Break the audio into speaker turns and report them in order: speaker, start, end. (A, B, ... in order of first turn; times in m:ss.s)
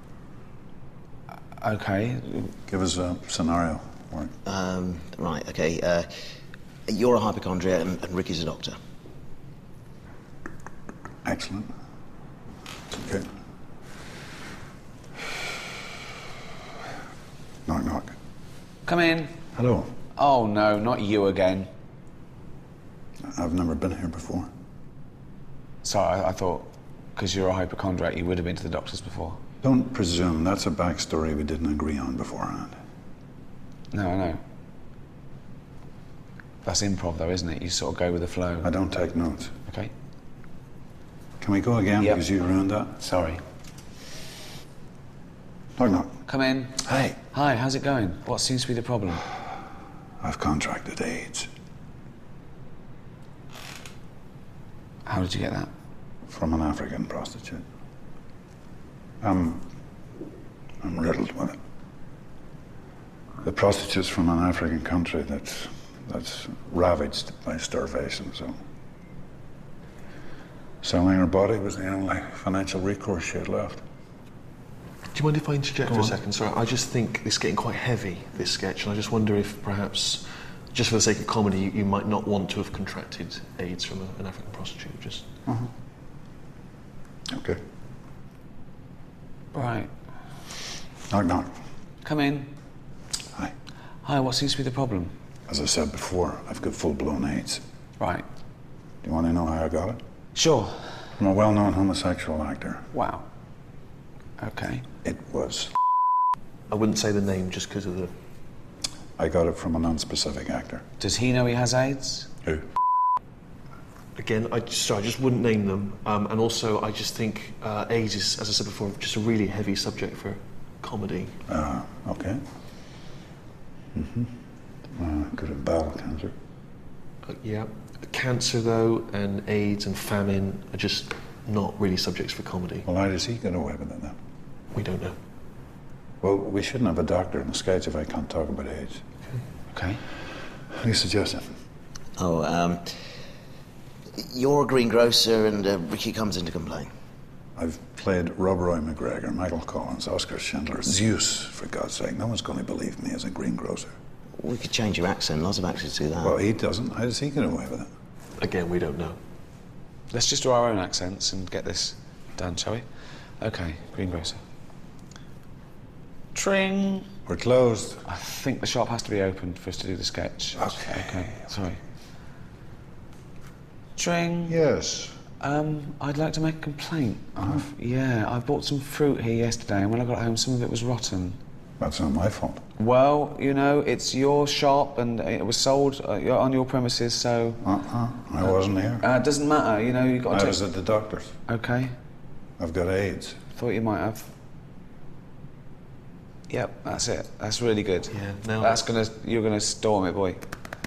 0:01.6-0:02.5 A
0:02.7-0:04.3 B
0:04.4-0:06.1 C
0:06.9-0:08.8 C
0:11.2-0:11.7 B
0:12.9-0:13.2 B
0:17.6-0:18.2 B
0:18.8-0:19.3 A
0:19.5-0:19.9 B
0:20.2-0:21.7 A
0:23.2-0:24.5 B
0:25.8-0:29.4 A
0:29.6-0:32.8 B
0:33.9-0:34.4 A
0:36.6-0:38.7 A
0:38.6-0:39.6 B
0:39.7-0:39.9 A
0:41.4-0:43.0 B
0:42.0-0:42.2 A
0:43.0-0:43.4 A
0:45.8-0:46.1 B
0:46.2-0:49.2 A
0:46.8-0:47.1 B
0:50.2-0:51.5 B
0:55.0-0:55.7 A
0:56.3-0:57.6 B
0:59.2-0:59.6 B
1:00.8-1:01.6 B
1:03.4-1:08.5 B
1:10.8-1:13.8 B
1:15.1-1:25.3 D
1:15.9-1:16.1 B
1:27.3-1:27.6 B
1:29.5-1:29.9 A
1:31.1-1:31.5 B
1:32.0-1:32.5 A
1:34.0-1:35.1 A
1:35.5-1:37.6 B
1:38.0-1:38.2 A
1:39.0-1:40.0 B
1:40.3-1:41.0 A
1:41.2-1:42.9 B
1:42.9-1:43.2 A
1:44.4-1:44.8 A
1:45.0-1:45.7 B
1:46.7-1:48.1 D
1:49.2-1:50.8 B
1:51.0-1:52.3 A
1:54.2-2:01.4 D
2:01.5-2:02.4 B
2:03.9-2:04.3 B
2:05.0-2:06.3 B
2:07.2-2:12.8 D
2:12.8-2:14.1 B
2:14.7-2:15.2 D
2:16.2-2:19.0 B
2:19.7-2:20.0 A
2:20.7-2:21.6 B
2:22.2-2:22.8 C
2:24.2-2:26.9 C
2:27.6-2:33.9 B
2:34.4-2:36.4 C
2:36.2-2:37.9 B
2:38.4-2:39.2 D
2:40.1-2:44.4 A
2:46.3-2:47.1 A
2:47.2-2:48.0 B
2:48.0-2:51.8 A
2:50.6-2:51.3 B
2:54.0-2:54.6 A
2:54.5-2:55.2 B
2:55.4-3:01.4 A
2:57.4-2:57.6 B
3:01.8-3:02.6 B
3:02.8-3:07.6 A
3:07.6-3:09.0 B
3:08.4-3:10.6 A
3:10.3-3:11.4 B
3:11.5-3:11.9 A
3:12.6-3:13.4 B
3:13.5-3:14.3 A
3:16.5-3:20.4 A
3:18.1-3:18.9 D